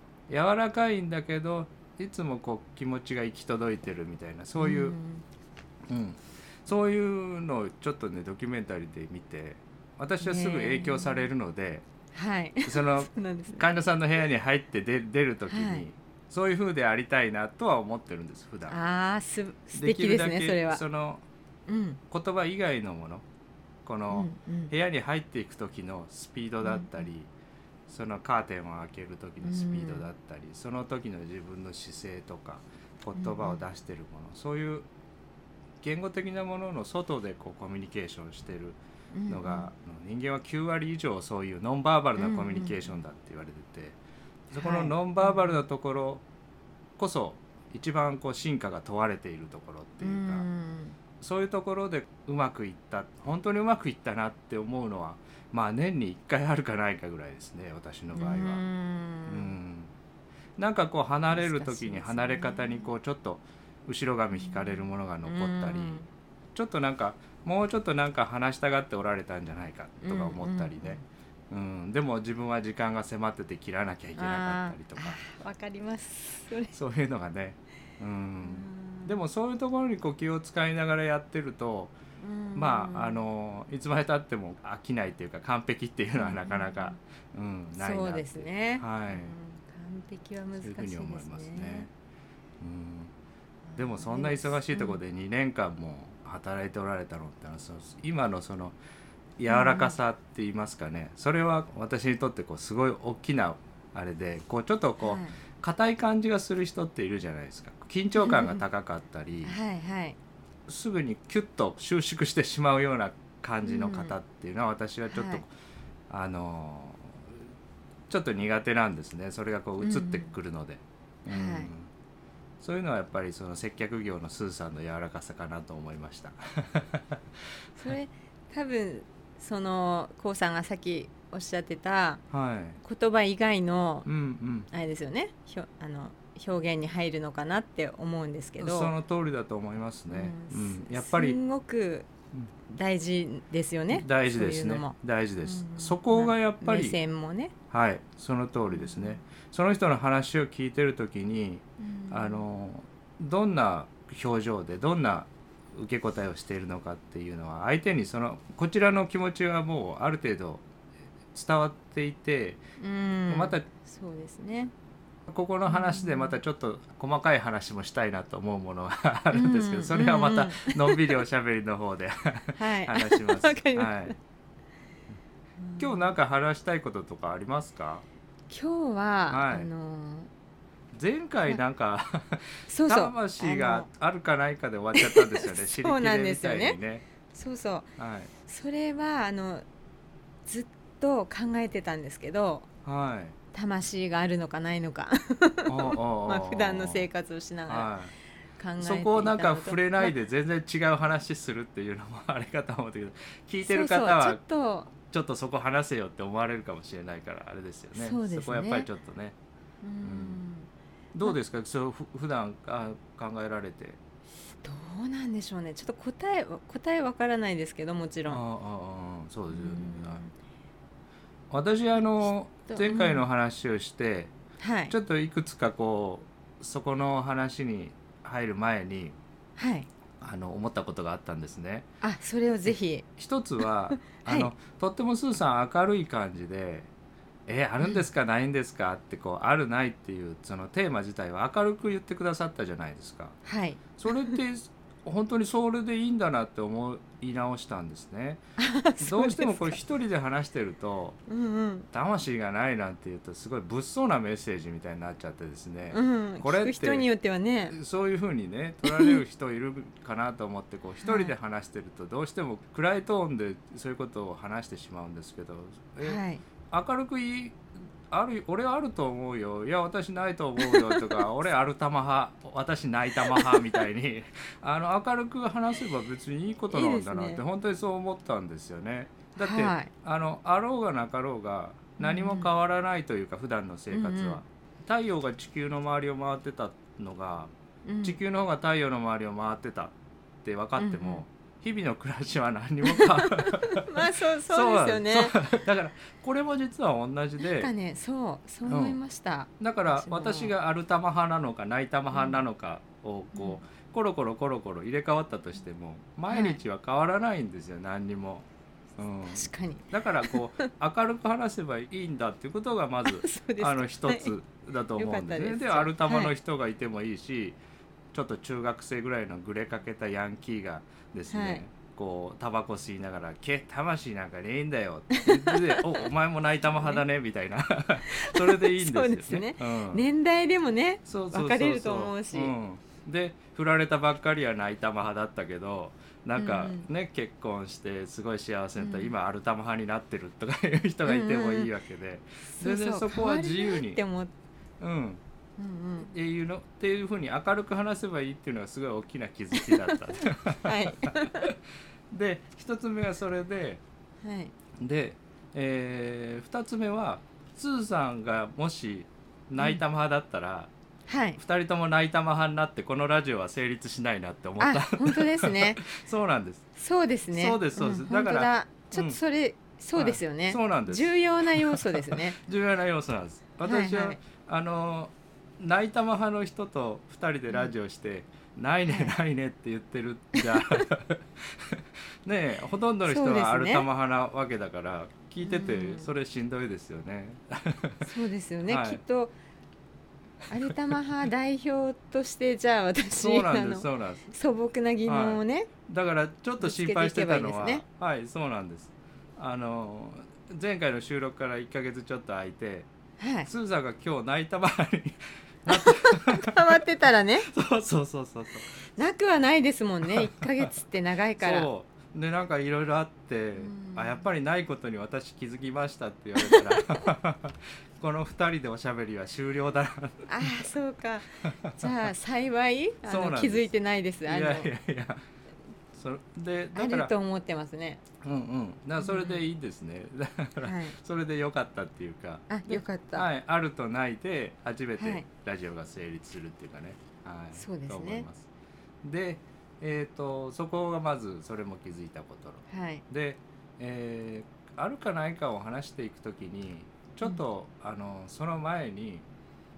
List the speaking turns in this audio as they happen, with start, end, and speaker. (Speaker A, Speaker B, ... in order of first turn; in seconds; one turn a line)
Speaker A: 0.3-5.0
Speaker B: 4.6-5.2
Speaker A: 5.9-11.8
Speaker B: 10.2-11.3
Speaker B: 12.1-13.7
Speaker A: 12.7-18.8
Speaker B: 15.5-15.8
Speaker B: 18.7-20.8
Speaker A: 19.7-21.2
Speaker B: 21.7-22.0
Speaker A: 22.1-23.2
Speaker A: 23.9-27.3
Speaker B: 24.1-24.7
Speaker B: 26.6-27.1
Speaker A: 27.9-34.9
Speaker B: 29.4-30.1
Speaker B: 33.1-33.6
Speaker A: 35.8-38.8
Speaker B: 39.1-39.7
Speaker A: 39.3-44.0
Speaker B: 42.2-42.9
Speaker B: 44.5-45.6
Speaker A: 44.5-46.2
Speaker A: 47.0-50.5
Speaker B: 50.0-51.0
Speaker A: 51.2-58.6
Speaker B: 58.1-59.5
Speaker A: 59.3-59.9
Speaker A: 60.6-66.0
Speaker B: 61.3-62.9
Speaker B: 64.3-66.1
Speaker A: 66.5-75.2
Speaker B: 70.0-71.0
Speaker B: 74.2-76.7
Speaker A: 76.7-81.9
Speaker B: 78.4-79.2
Speaker B: 82.2-83.2
Speaker A: 82.6-89.3
Speaker B: 86.2-87.0
Speaker B: 87.8-91.9
Speaker A: 90.6-91.9
Speaker A: 92.6-93.1
Speaker B: 93.7-95.0
Speaker A: 93.8-98.8
Speaker A: 99.4-109.6
Speaker B: 99.5-100.0
Speaker B: 105.0-105.3
Speaker B: 108.2-108.6
Speaker B: 109.4-110.2
Speaker A: 110.7-115.5
Speaker B: 113.6-114.2
Speaker B: 115.1-115.4
Speaker A: 116.1-117.4
Speaker A: 118.1-121.9
Speaker B: 119.8-120.3
Speaker B: 121.3-121.7
Speaker A: 122.6-127.2
Speaker B: 127.8-132.2
Speaker A: 132.3-132.8
Speaker B: 132.8-134.1
Speaker A: 134.1-134.7
Speaker B: 134.7-138.9
Speaker A: 138.6-141.4
Speaker B: 140.1-142.1
Speaker B: 142.7-147.5
Speaker A: 143.9-147.0
Speaker A: 147.7-160.6
Speaker B: 148.7-149.2
Speaker B: 151.8-152.4
Speaker A: 161.3-162.6
Speaker B: 162.8-164.7
Speaker A: 163.3-163.6
Speaker A: 165.3-174.2
Speaker B: 165.7-166.4
Speaker B: 169.3-171.2
Speaker B: 172.6-174.2
Speaker B: 175.6-176.1
Speaker A: 175.8-178.1
Speaker B: 178.5-180.3
Speaker A: 179.3-179.7
Speaker A: 180.9-187.1
Speaker B: 182.7-183.9
Speaker B: 184.9-186.8
Speaker B: 187.3-187.9
Speaker A: 188.0-188.3
Speaker B: 188.5-189.7
Speaker B: 190.5-192.7
Speaker A: 192.8-193.4
Speaker B: 193.5-197.9
Speaker A: 195.7-197.1
Speaker A: 197.7-198.1
Speaker B: 198.6-200.2
Speaker A: 198.8-204.4
Speaker B: 203.6-204.9
Speaker A: 205.0-209.4
Speaker B: 207.9-208.9
Speaker B: 209.8-210.7
Speaker A: 210.0-210.4
Speaker A: 211.1-214.0
Speaker B: 214.6-218.4
Speaker A: 218.3-220.2
Speaker B: 219.5-220.3
Speaker A: 221.5-224.3
Speaker B: 222.7-223.2
Speaker B: 224.6-225.0
Speaker A: 224.9-229.2
Speaker B: 229.6-229.9
Speaker A: 230.2-231.9
Speaker B: 232.0-233.1
Speaker A: 233.2-236.9
Speaker B: 233.6-234.5
Speaker A: 237.5-243.4
Speaker B: 243.4-244.4
Speaker A: 244.0-248.4
Speaker B: 248.6-249.8
Speaker A: 249.0-251.2
Speaker B: 251.3-251.9
Speaker A: 251.9-257.1
Speaker B: 255.9-257.8
Speaker A: 257.7-287.5
Speaker B: 258.9-259.2
Speaker B: 261.0-261.3
Speaker B: 266.0-266.4
Speaker B: 270.6-271.2
Speaker B: 273.2-273.8
Speaker B: 276.7-277.4
Speaker B: 279.4-279.9
Speaker B: 282.0-282.5
Speaker B: 283.9-284.4
Speaker B: 287.9-288.2
Speaker A: 288.0-289.9
Speaker A: 290.4-297.7
Speaker B: 290.8-291.2
Speaker B: 292.9-295.5
Speaker B: 297.4-300.5
Speaker A: 298.7-299.0
Speaker A: 299.6-308.5
Speaker B: 302.1-302.4
Speaker B: 303.3-303.6
Speaker B: 306.3-306.6
Speaker A: 309.0-317.6
Speaker B: 309.3-310.7
Speaker B: 313.1-314.4
Speaker B: 315.0-316.3
Speaker A: 318.1-330.1
Speaker B: 321.3-321.6
Speaker B: 325.1-326.1
Speaker B: 326.7-327.0
Speaker B: 328.1-332.5
Speaker A: 331.1-344.0
Speaker B: 336.4-336.9
Speaker B: 338.8-339.1
Speaker B: 341.1-341.7
Speaker B: 342.5-344.3
Speaker A: 344.8-345.2
Speaker B: 345.6-346.1
Speaker A: 346.0-351.6
Speaker B: 349.5-351.5
Speaker A: 352.1-353.8
Speaker B: 354.2-354.5
Speaker A: 354.8-360.7
Speaker B: 361.1-361.4
Speaker A: 361.4-366.7
Speaker B: 364.6-365.8
Speaker B: 366.8-372.4
Speaker A: 367.3-369.2
Speaker A: 370.0-388.1
Speaker B: 373.6-374.2
Speaker B: 378.9-379.1
Speaker B: 380.4-380.8
Speaker B: 383.1-383.9
Speaker B: 385.4-386.1
Speaker B: 388.0-389.3
Speaker A: 388.7-389.0
Speaker B: 390.5-395.7
Speaker A: 393.2-394.3
Speaker A: 395.1-402.9
Speaker B: 396.6-397.8
Speaker B: 403.2-403.5
Speaker A: 403.5-406.7
Speaker B: 405.7-407.5
Speaker A: 407.5-408.7
Speaker B: 409.0-411.7
Speaker A: 410.1-410.7
Speaker A: 411.4-420.7
Speaker B: 413.6-414.3
Speaker B: 416.4-417.1
Speaker B: 420.3-424.7
Speaker A: 423.1-423.7
Speaker A: 424.3-425.2
Speaker A: 425.9-427.1
Speaker B: 426.8-428.0
Speaker A: 428.2-438.5
Speaker B: 429.0-429.4
Speaker B: 430.6-431.0
Speaker B: 432.5-433.3
Speaker B: 435.0-435.2
Speaker B: 437.5-438.3
Speaker A: 439.0-449.3
Speaker B: 442.7-443.0